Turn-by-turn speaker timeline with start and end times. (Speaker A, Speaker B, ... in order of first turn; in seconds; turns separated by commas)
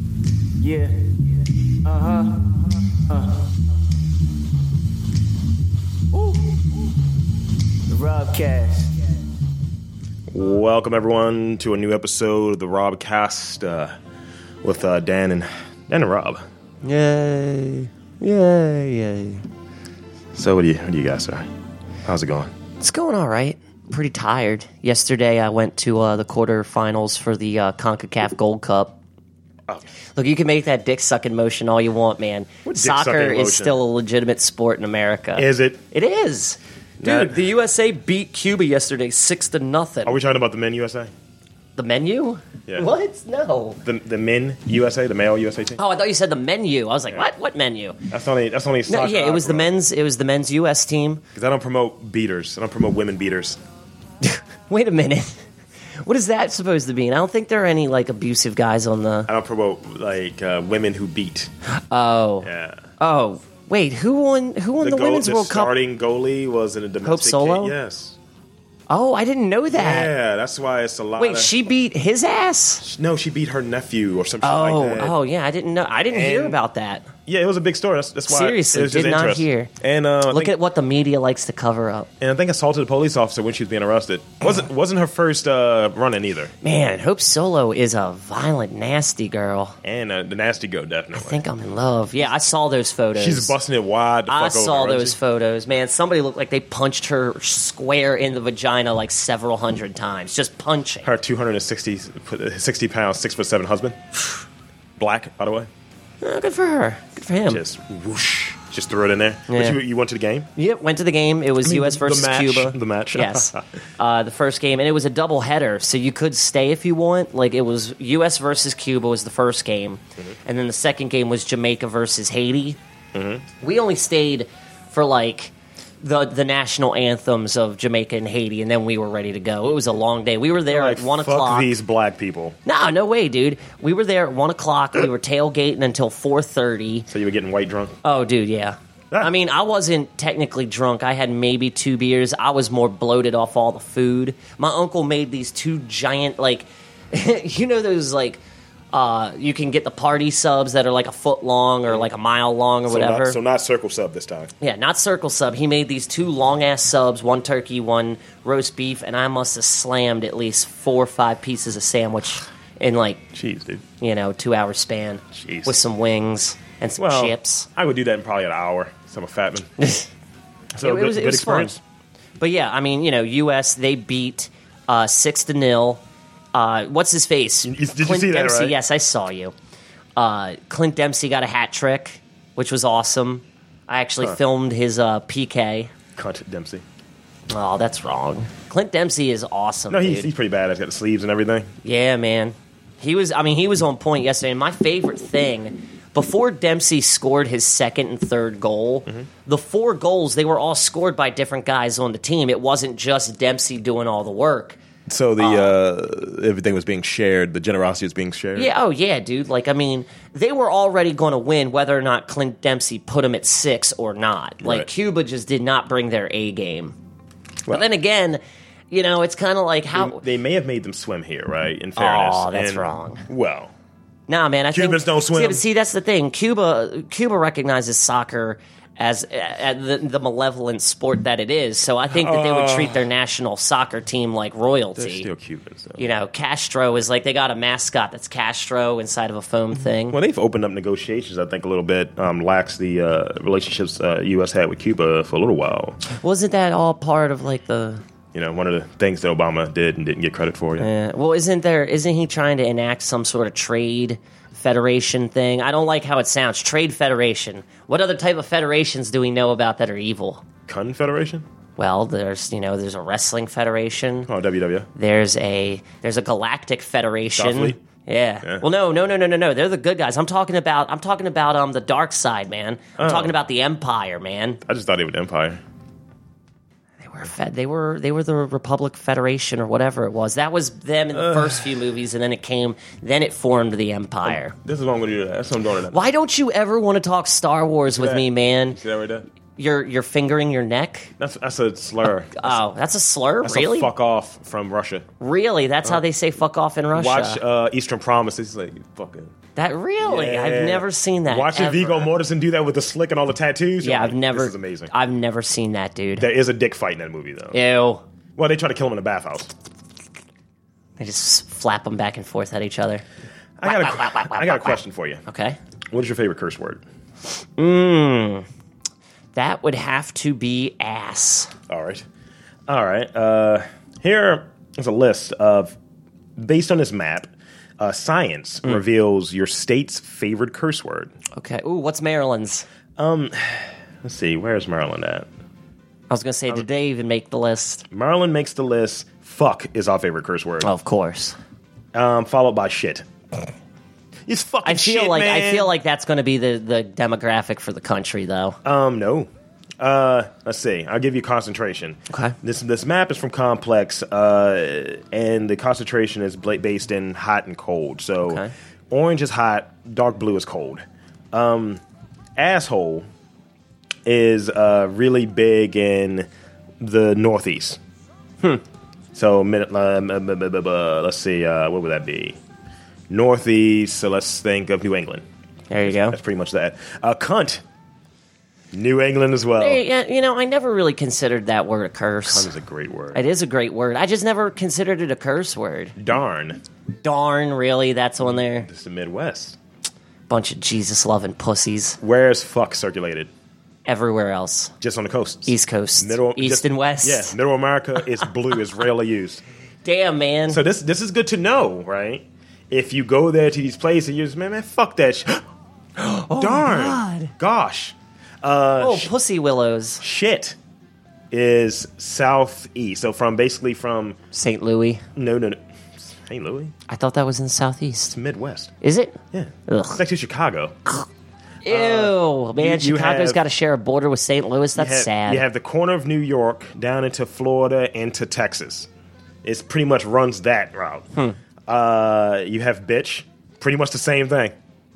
Speaker A: 0.6-1.2, Speaker A: 1.8-3.3, Speaker A: 6.1-6.6, Speaker A: 7.9-9.1, Speaker B: 10.3-13.9, Speaker B: 14.6-16.4, Speaker C: 16.8-19.4, Speaker B: 20.3-21.5, Speaker B: 22.0-22.5, Speaker C: 22.8-29.0, Speaker C: 30.1-40.2, Speaker B: 32.6-33.8, Speaker B: 35.4-35.8, Speaker B: 37.0-37.4, Speaker B: 40.0-41.1, Speaker C: 41.8-43.8, Speaker B: 43.8-45.8, Speaker C: 45.8-48.0, Speaker B: 48.1-49.8, Speaker C: 48.9-51.2, Speaker B: 51.3-53.6, Speaker C: 54.2-55.4, Speaker C: 56.0-59.3, Speaker B: 59.3-61.5, Speaker C: 61.8-65.7, Speaker B: 62.4-62.8, Speaker B: 64.8-68.2, Speaker C: 67.0-67.7, Speaker C: 68.9-70.1, Speaker B: 69.7-71.5, Speaker C: 71.2-72.8, Speaker B: 72.8-75.2, Speaker C: 74.4-77.1, Speaker B: 76.1-76.6, Speaker B: 77.3-80.6, Speaker C: 78.3-79.7, Speaker C: 80.2-82.1, Speaker B: 82.2-86.5, Speaker C: 86.6-89.8, Speaker B: 89.8-91.4, Speaker C: 91.2-93.5, Speaker B: 93.2-95.2, Speaker C: 94.3-101.1, Speaker B: 101.0-104.0, Speaker B: 105.0-105.7, Speaker C: 106.2-107.6, Speaker B: 107.5-110.5, Speaker C: 109.5-109.8, Speaker C: 110.5-122.8, Speaker B: 111.6-113.6, Speaker B: 123.1-123.5, Speaker C: 123.6-131.7, Speaker B: 130.7-132.6, Speaker C: 132.6-137.1, Speaker B: 137.1-137.9, Speaker C: 138.0-148.4, Speaker C: 148.9-153.4, Speaker B: 152.9-154.5, Speaker C: 154.6-163.3, Speaker B: 163.3-163.8, Speaker C: 164.0-167.7, Speaker B: 165.3-165.8, Speaker B: 167.0-169.7, Speaker C: 169.8-170.1, Speaker B: 170.7-171.8, Speaker C: 170.8-171.7, Speaker C: 172.4-176.0, Speaker C: 176.5-179.5, Speaker B: 177.7-178.7, Speaker C: 180.2-185.9, Speaker B: 186.2-186.8, Speaker C: 187.5-190.3, Speaker B: 189.9-191.7, Speaker C: 191.8-204.8, Speaker B: 205.1-208.7, Speaker C: 205.4-205.7, Speaker C: 208.5-216.9, Speaker B: 214.6-214.9, Speaker C: 217.7-220.2, Speaker B: 219.9-223.7, Speaker C: 221.9-223.2, Speaker C: 224.3-235.3, Speaker B: 224.7-225.6, Speaker B: 232.1-233.1, Speaker B: 235.0-236.1, Speaker C: 236.0-240.2, Speaker B: 240.0-246.0, Speaker C: 246.1-248.0, Speaker B: 248.3-250.9, Speaker C: 250.8-260.4, Speaker B: 260.7-261.4, Speaker C: 261.8-264.3, Speaker B: 264.3-264.9, Speaker C: 264.9-274.6, Speaker B: 267.4-267.8, Speaker B: 273.0-273.3, Speaker B: 274.6-275.6, Speaker C: 277.0-284.5, Speaker B: 281.1-281.8, Speaker B: 284.2-286.0, Speaker C: 285.9-288.8, Speaker B: 287.9-289.2, Speaker C: 289.6-291.1, Speaker B: 291.2-292.6, Speaker C: 292.3-293.9, Speaker B: 293.4-295.1, Speaker C: 295.2-297.4, Speaker B: 296.9-299.3, Speaker C: 299.5-302.1, Speaker B: 300.0-304.9, Speaker C: 303.8-306.3, Speaker B: 306.2-307.6, Speaker C: 307.5-308.0, Speaker B: 308.4-309.5, Speaker C: 311.0-313.0, Speaker B: 313.6-315.2, Speaker C: 313.6-315.6, Speaker B: 315.9-316.8, Speaker C: 317.6-318.4, Speaker C: 319.3-321.5, Speaker B: 321.7-322.1, Speaker B: 322.7-325.8, Speaker B: 326.4-331.1, Speaker C: 331.3-332.6, Speaker B: 333.0-335.3, Speaker C: 336.1-337.8, Speaker B: 337.9-340.7, Speaker C: 340.6-341.4, Speaker B: 341.9-343.1, Speaker B: 344.3-345.7, Speaker C: 344.6-348.6, Speaker B: 348.6-361.8, Speaker C: 352.1-352.3, Speaker C: 358.2-358.5, Speaker B: 362.4-363.0, Speaker B: 364.1-366.3, Speaker B: 366.8-367.8, Speaker B: 369.1-372.4, Speaker B: 373.1-375.2, Speaker C: 375.7-376.2, Speaker B: 375.8-377.6, Speaker B: 378.7-379.8, Speaker C: 379.6-382.5, Speaker B: 382.2-383.2, Speaker C: 383.1-385.9, Speaker B: 385.9-386.6, Speaker C: 387.0-388.7, Speaker B: 388.6-389.6, Speaker C: 390.3-392.0, Speaker B: 392.0-393.3, Speaker C: 393.9-394.7, Speaker B: 394.8-399.4, Speaker C: 395.5-397.4, Speaker C: 399.8-400.6, Speaker B: 400.5-405.4, Speaker C: 406.0-407.3, Speaker B: 406.3-409.1, Speaker C: 408.8-410.0, Speaker B: 410.0-410.6, Speaker B: 411.3-414.2, Speaker C: 414.3-415.0, Speaker B: 415.1-416.7, Speaker C: 416.9-418.1, Speaker B: 418.1-418.7, Speaker C: 418.8-420.0, Speaker B: 419.3-420.7, Speaker C: 421.6-425.4, Speaker B: 421.7-423.4, Speaker B: 424.7-428.9, Speaker B: 429.4-431.1, Speaker B: 431.7-434.5